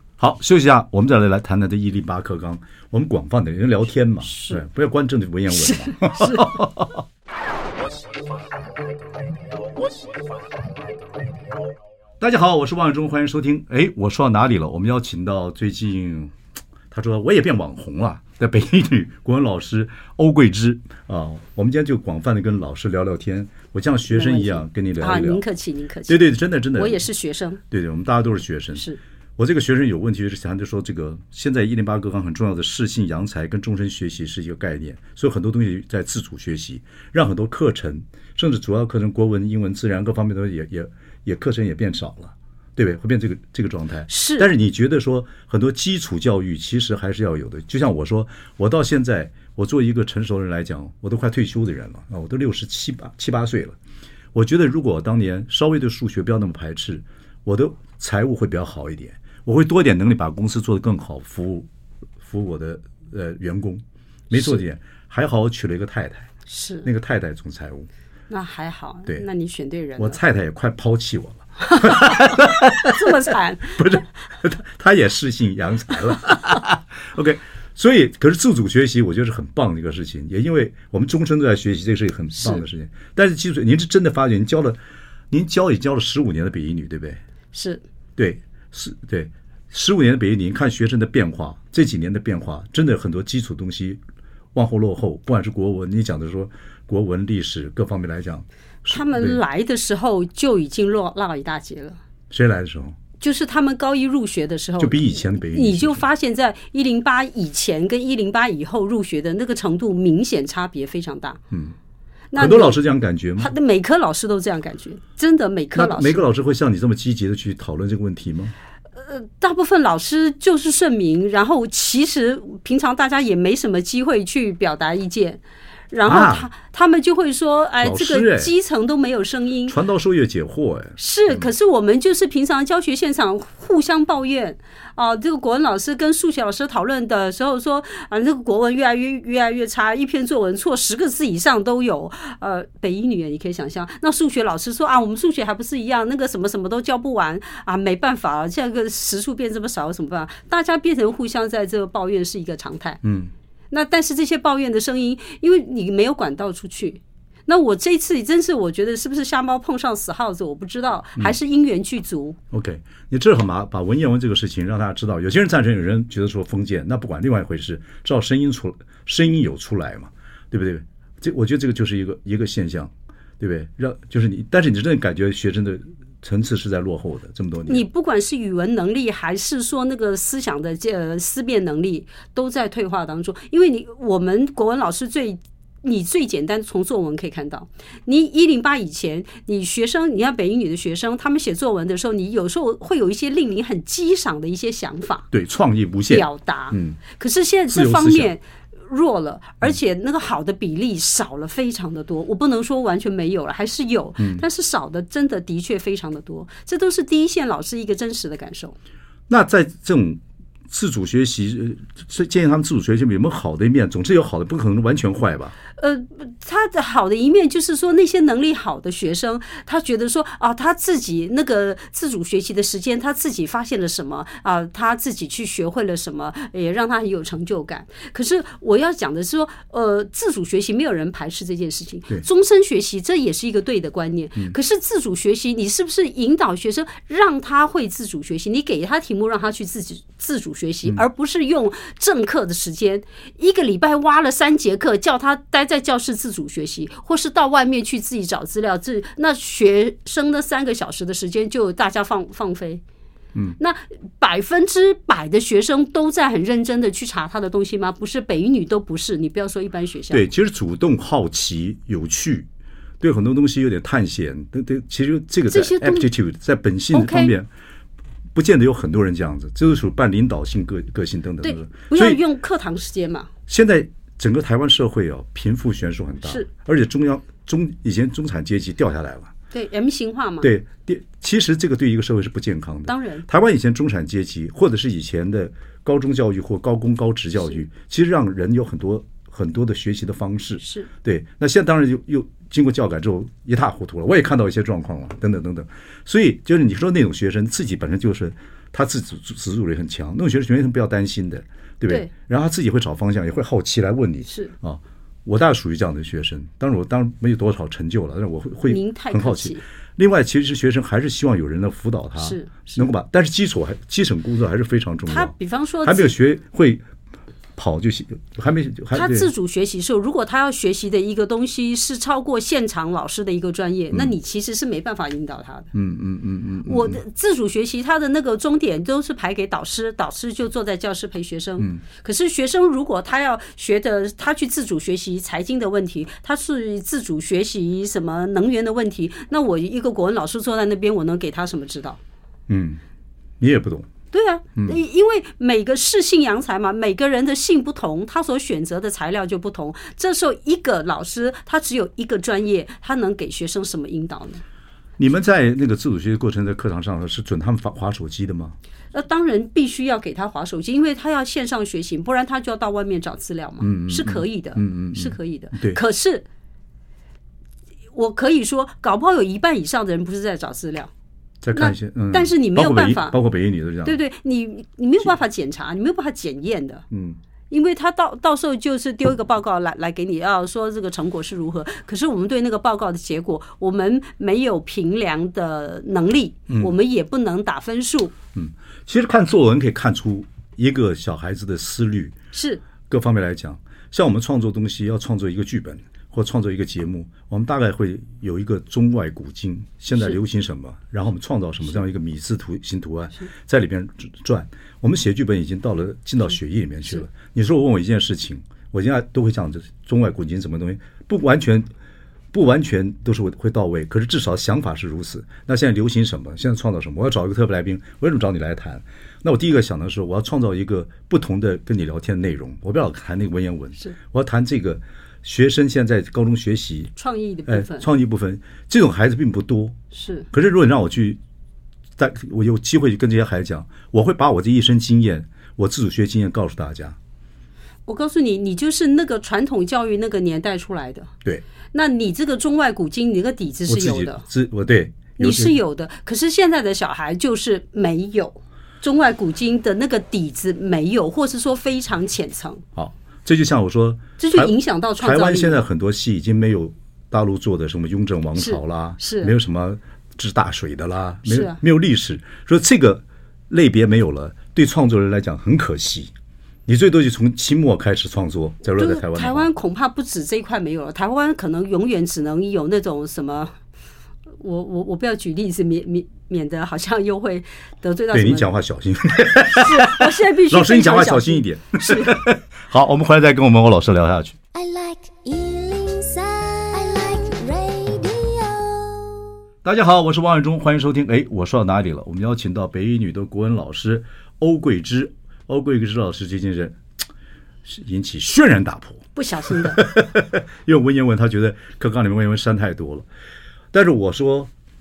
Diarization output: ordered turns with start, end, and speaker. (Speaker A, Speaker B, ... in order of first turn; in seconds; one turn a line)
Speaker A: 0.2-7.0
Speaker B: 4.2-4.6
Speaker B: 5.5-6.6
Speaker A: 12.2-16.3
Speaker A: 16.9-25.4
Speaker B: 24.1-27.6
Speaker A: 26.1-27.0
Speaker A: 27.7-28.9
Speaker A: 29.4-53.8
Speaker B: 44.1-44.5
Speaker A: 54.3-61.7
Speaker A: 62.2-66.3
Speaker B: 64.3-64.6
Speaker B: 66.5-66.9
Speaker A: 66.8-67.9
Speaker B: 68.3-70.2
Speaker A: 70.0-84.8
Speaker B: 71.7-74.0
Speaker B: 82.4-82.6
Speaker A: 85.3-87.2
Speaker B: 87.5-87.8
Speaker A: 88.2-94.0
Speaker A: 94.5-99.4
Speaker B: 98.9-102.0
Speaker A: 102.3-103.0
Speaker B: 103.2-111.4
Speaker A: 104.8-106.0
Speaker B: 112.3-112.8
Speaker A: 112.3-113.5
Speaker B: 113.4-116.2
Speaker A: 115.7-118.5
Speaker B: 119.0-129.8
Speaker A: 126.0-126.5
Speaker A: 127.8-128.5
Speaker A: 129.7-131.5
Speaker B: 131.0-153.0
Speaker A: 153.0-153.3
Speaker B: 153.7-162.4
Speaker A: 162.5-177.8
Speaker B: 177.7-195.3
Speaker A: 195.3-197.0
Speaker B: 196.1-208.8
Speaker A: 197.7-198.3
Speaker A: 204.2-204.4
Speaker A: 209.3-215.5
Speaker B: 215.8-252.8
Speaker B: 253.6-260.2
Speaker A: 260.1-262.5
Speaker A: 263.0-267.5
Speaker B: 265.5-266.1
Speaker B: 266.9-267.3
Speaker A: 268.3-272.2
Speaker B: 271.4-273.3
Speaker A: 273.5-279.3
Speaker B: 279.5-280.5
Speaker A: 280.4-315.3
Speaker B: 282.9-283.2
Speaker B: 290.6-290.9
Speaker B: 304.3-304.5
Speaker B: 308.7-309.6
Speaker B: 312.2-312.9
Speaker B: 315.1-316.1
Speaker A: 315.8-316.8
Speaker A: 317.6-319.3
Speaker B: 318.9-325.7
Speaker A: 325.7-327.0
Speaker B: 326.6-342.0
Speaker A: 342.5-342.8
Speaker A: 343.4-343.9
Speaker B: 344.1-354.4
Speaker A: 355.0-358.6
Speaker B: 358.9-366.2
Speaker A: 363.6-365.8
Speaker B: 367.9-370.9
Speaker A: 371.4-374.0
Speaker B: 371.5-373.2
Speaker B: 373.8-376.8
Speaker A: 376.9-377.2
Speaker B: 377.5-388.1
Speaker A: 386.5-386.7
Speaker A: 388.3-392.1
Speaker B: 392.3-392.6
Speaker A: 392.9-411.6
Speaker A: 412.3-426.9
Speaker B: 426.9-427.9
Speaker A: 427.5-429.8
Speaker B: 429.9-430.3
Speaker A: 430.3-431.2
Speaker A: 432.0-437.0
Speaker B: 437.9-441.1
Speaker B: 441.7-444.2
Speaker A: 443.7-445.6
Speaker B: 445.1-452.6
Speaker A: 452.7-466.1
Speaker B: 454.2-455.6
Speaker B: 458.4-459.3
Speaker B: 461.2-461.6
Speaker A: 466.6-469.5
Speaker B: 468.7-473.5
Speaker B: 474.4-478.5
Speaker A: 478.1-484.4
Speaker B: 479.5-482.2
Speaker C: 484.5-489.3
Speaker A: 489.6-496.8
Speaker A: 497.6-503.1
Speaker B: 499.1-499.8
Speaker A: 503.7-504.5